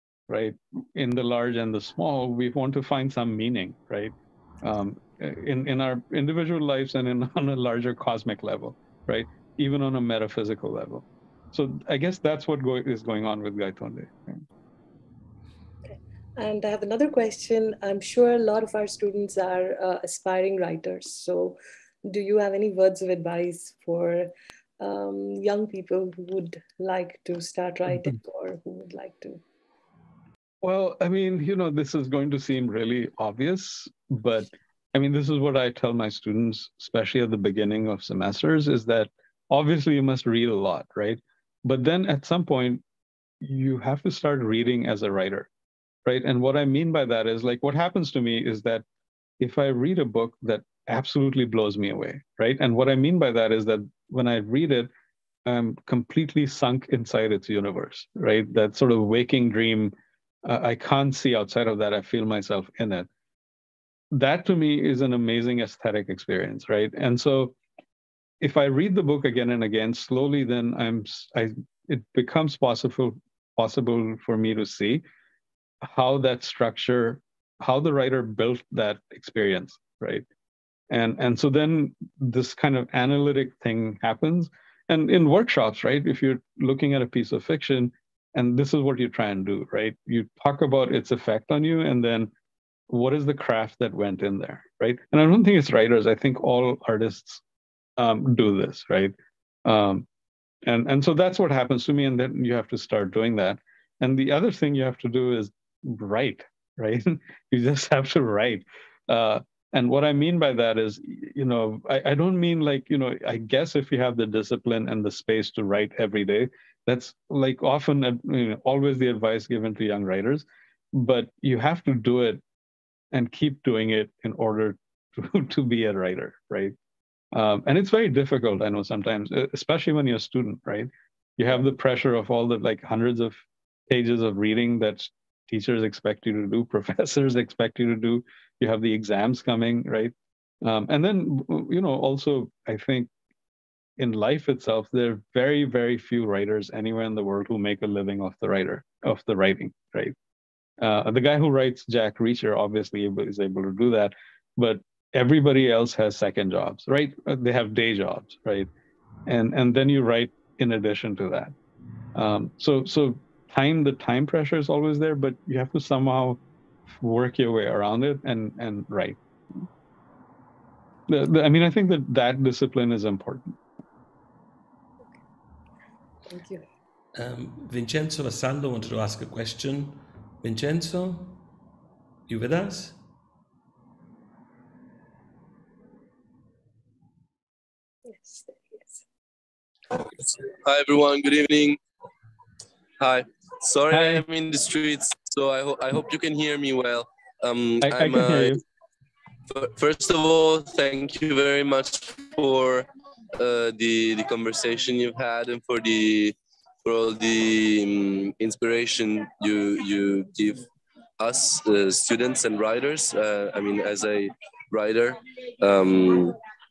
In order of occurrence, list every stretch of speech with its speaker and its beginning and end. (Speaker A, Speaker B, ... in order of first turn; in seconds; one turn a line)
Speaker A: 0.3-14.4
Speaker B: 15.9-29.4
Speaker A: 30.6-42.8
Speaker A: 43.4-45.5
Speaker A: 46.0-48.8
Speaker A: 49.4-54.9
Speaker A: 55.5-59.9
Speaker A: 60.5-63.1
Speaker A: 64.1-67.5
Speaker A: 68.4-75.0
Speaker A: 75.8-80.2
Speaker A: 80.9-92.3
Speaker A: 92.9-97.4
Speaker A: 98.0-99.1
Speaker A: 99.6-100.1
Speaker A: 100.6-122.4
Speaker A: 123.1-126.7
Speaker A: 127.3-143.1
Speaker A: 144.0-150.1
Speaker A: 150.8-158.7
Speaker A: 159.3-161.5
Speaker A: 162.1-166.4
Speaker A: 167.0-169.7
Speaker A: 171.1-173.6
Speaker B: 176.3-176.6
Speaker C: 177.1-181.4
Speaker C: 182.3-183.0
Speaker B: 188.1-189.0
Speaker D: 189.9-191.8
Speaker D: 193.0-198.6
Speaker A: 193.9-194.2
Speaker A: 197.8-198.6
Speaker D: 199.5-210.6
Speaker D: 211.2-216.4